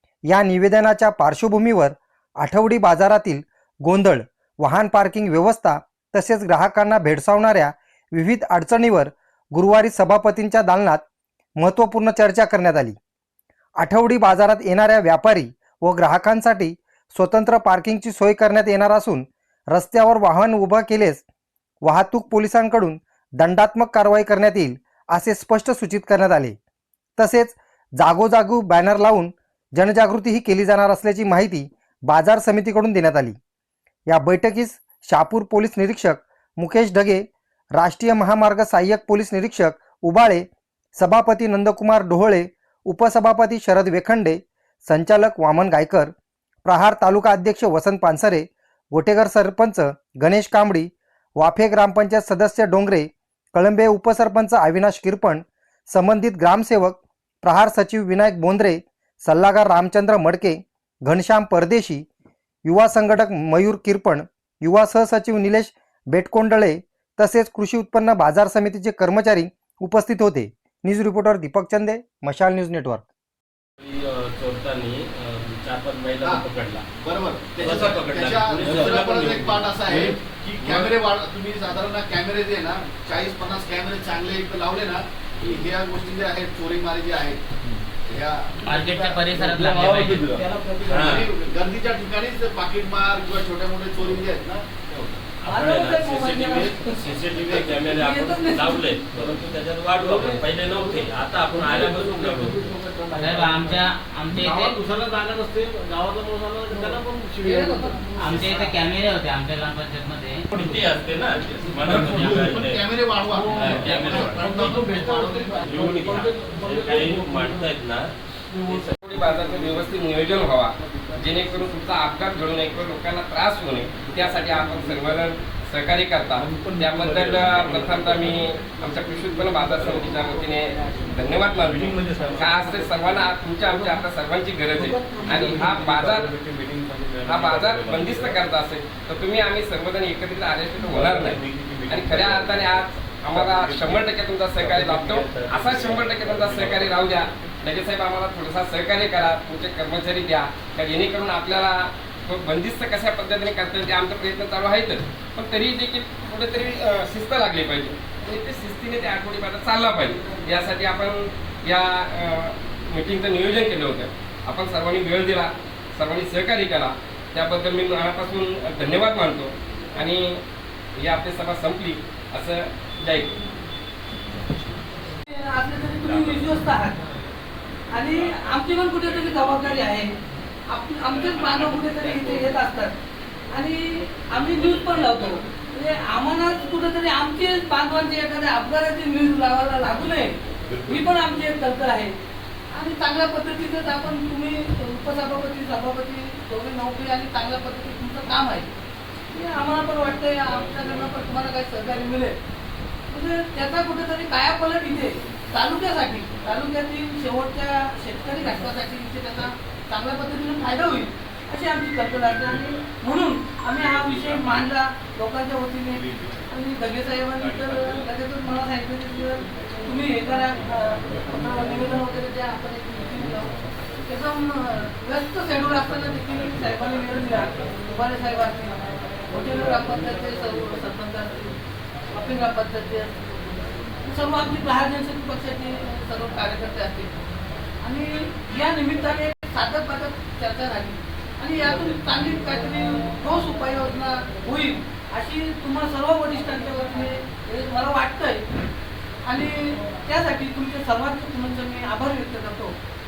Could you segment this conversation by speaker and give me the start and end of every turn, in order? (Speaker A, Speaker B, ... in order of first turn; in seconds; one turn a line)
Speaker A: 0.3-11.0
Speaker A: 11.6-13.0
Speaker A: 13.8-21.2
Speaker A: 21.8-26.6
Speaker A: 27.2-33.4
Speaker A: 34.1-37.2
Speaker A: 37.8-40.5
Speaker A: 41.0-46.1
Speaker A: 46.6-62.0
Speaker A: 62.6-73.0
Speaker B: 73.8-76.8
Speaker C: 77.0-87.4
Speaker B: 77.6-80.1
Speaker C: 88.1-89.2
Speaker B: 88.7-91.2
Speaker D: 88.8-90.2
Speaker E: 89.4-91.3
Speaker C: 91.0-94.7
Speaker B: 94.9-102.6
Speaker F: 95.5-96.8
Speaker F: 97.9-98.8
Speaker E: 99.2-99.4
Speaker E: 100.0-108.5
Speaker B: 103.2-103.7
Speaker D: 103.2-104.8
Speaker B: 104.3-104.6
Speaker F: 106.7-108.6
Speaker B: 108.2-109.0
Speaker D: 108.3-110.4
Speaker B: 110.5-112.8
Speaker E: 110.8-111.1
Speaker E: 111.7-112.1
Speaker C: 111.9-115.6
Speaker E: 113.3-117.8
Speaker B: 113.5-114.8
Speaker B: 115.6-118.9
Speaker E: 118.5-118.9
Speaker G: 119.0-136.3
Speaker E: 126.4-128.7
Speaker E: 129.3-130.3
Speaker E: 131.7-133.2
Speaker E: 134.8-137.3
Speaker B: 137.2-138.2
Speaker G: 137.3-170.4
Speaker B: 141.2-141.5
Speaker B: 142.1-142.7
Speaker B: 144.7-147.1
Speaker G: 171.0-173.3
Speaker F: 175.3-177.0
Speaker F: 177.9-180.2
Speaker F: 180.7-182.9
Speaker F: 183.5-192.2
Speaker F: 192.7-198.7
Speaker F: 199.3-202.4
Speaker F: 203.1-223.5
Speaker F: 224.1-231.6
Speaker F: 232.1-237.1
Speaker F: 237.8-248.4
Speaker F: 249.2-252.8